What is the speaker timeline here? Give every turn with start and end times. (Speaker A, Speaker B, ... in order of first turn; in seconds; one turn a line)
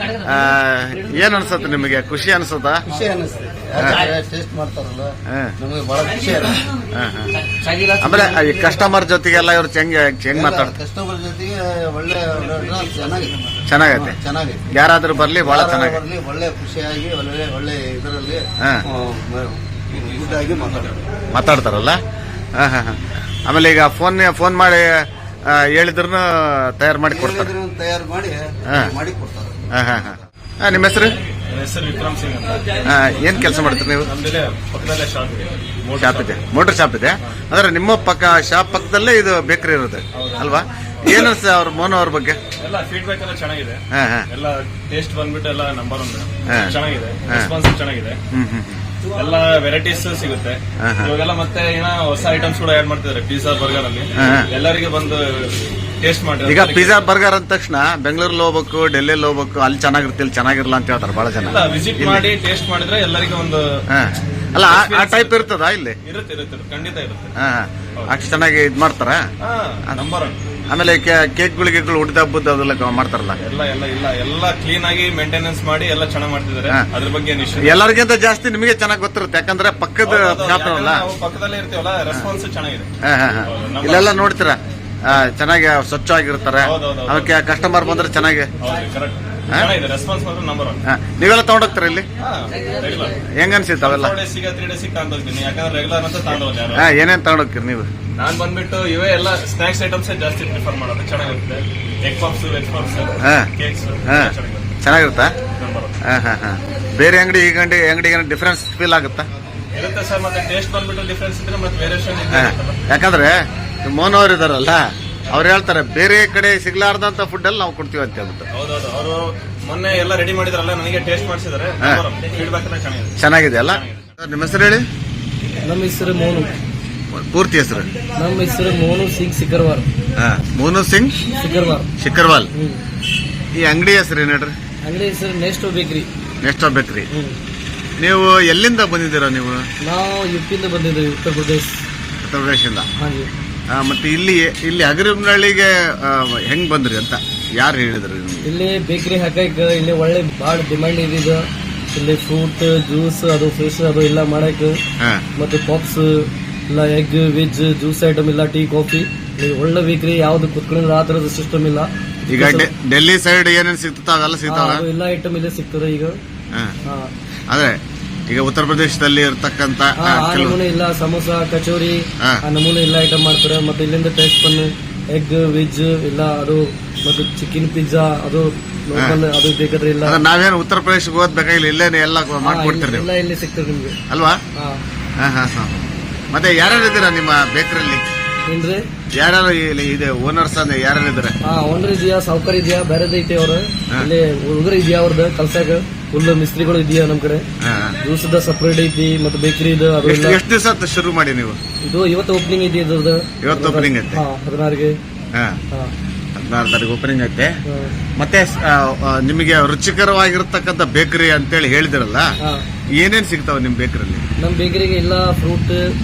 Speaker A: 0.2-2.9
Speaker B: 2.9-6.7
Speaker A: 5.3-5.5
Speaker A: 6.9-7.3
Speaker C: 7.6-8.0
Speaker A: 8.0-10.7
Speaker B: 10.3-14.7
Speaker A: 13.7-14.2
Speaker A: 14.7-16.0
Speaker B: 15.4-21.0
Speaker D: 19.9-21.0
Speaker A: 21.3-22.0
Speaker A: 22.6-27.5
Speaker B: 27.1-29.7
Speaker A: 29.7-31.2
Speaker D: 31.5-32.8
Speaker A: 32.8-34.1
Speaker D: 34.0-36.4
Speaker A: 36.0-42.4
Speaker D: 40.1-40.5
Speaker D: 42.6-48.2
Speaker A: 43.9-44.3
Speaker A: 46.5-46.8
Speaker A: 48.3-48.9
Speaker D: 49.1-57.1
Speaker A: 50.8-51.1
Speaker A: 54.2-54.5
Speaker A: 56.5-62.2
Speaker D: 61.5-63.8
Speaker A: 63.9-66.0
Speaker D: 64.5-65.5
Speaker D: 66.0-67.3
Speaker A: 67.4-69.3
Speaker D: 69.4-70.4
Speaker A: 70.7-73.4
Speaker D: 73.4-77.8
Speaker A: 77.6-81.1
Speaker D: 80.0-82.9
Speaker A: 83.0-88.5
Speaker D: 83.5-84.2
Speaker D: 86.6-87.3
Speaker D: 88.6-90.8
Speaker A: 90.9-92.1
Speaker D: 92.2-93.2
Speaker A: 93.3-94.2
Speaker D: 93.8-96.9
Speaker A: 96.7-97.9
Speaker D: 98.2-104.7
Speaker A: 103.2-103.5
Speaker A: 104.1-105.3
Speaker D: 105.6-106.0
Speaker A: 106.0-109.3
Speaker D: 109.8-112.8
Speaker A: 112.3-118.5
Speaker D: 118.5-123.2
Speaker A: 123.2-124.9
Speaker D: 123.7-124.1
Speaker C: 125.6-126.5
Speaker A: 127.1-127.9
Speaker C: 128.2-129.8
Speaker A: 130.2-131.2
Speaker C: 131.3-131.9
Speaker A: 132.0-132.5
Speaker A: 133.5-134.6
Speaker C: 134.8-136.1
Speaker A: 136.4-137.1
Speaker C: 137.1-137.4
Speaker A: 138.0-139.7
Speaker C: 139.8-141.8
Speaker A: 142.2-142.9
Speaker C: 143.0-143.3
Speaker A: 143.7-148.5
Speaker C: 148.4-154.8
Speaker C: 155.4-162.7
Speaker A: 162.3-164.9
Speaker C: 164.5-166.2
Speaker A: 167.5-167.8
Speaker A: 168.3-170.6
Speaker C: 170.0-180.2
Speaker A: 180.0-183.1
Speaker C: 182.4-184.0
Speaker A: 184.1-184.4
Speaker C: 184.6-184.8
Speaker A: 185.2-188.1
Speaker C: 188.5-188.8
Speaker A: 189.2-191.4
Speaker C: 191.4-197.5
Speaker A: 197.6-198.0
Speaker C: 198.0-200.4
Speaker A: 200.0-201.6
Speaker C: 201.8-205.0
Speaker A: 203.4-204.2
Speaker A: 205.3-205.6
Speaker A: 206.3-207.5
Speaker C: 207.7-207.9
Speaker A: 208.2-212.3
Speaker A: 212.9-214.2
Speaker C: 214.4-215.8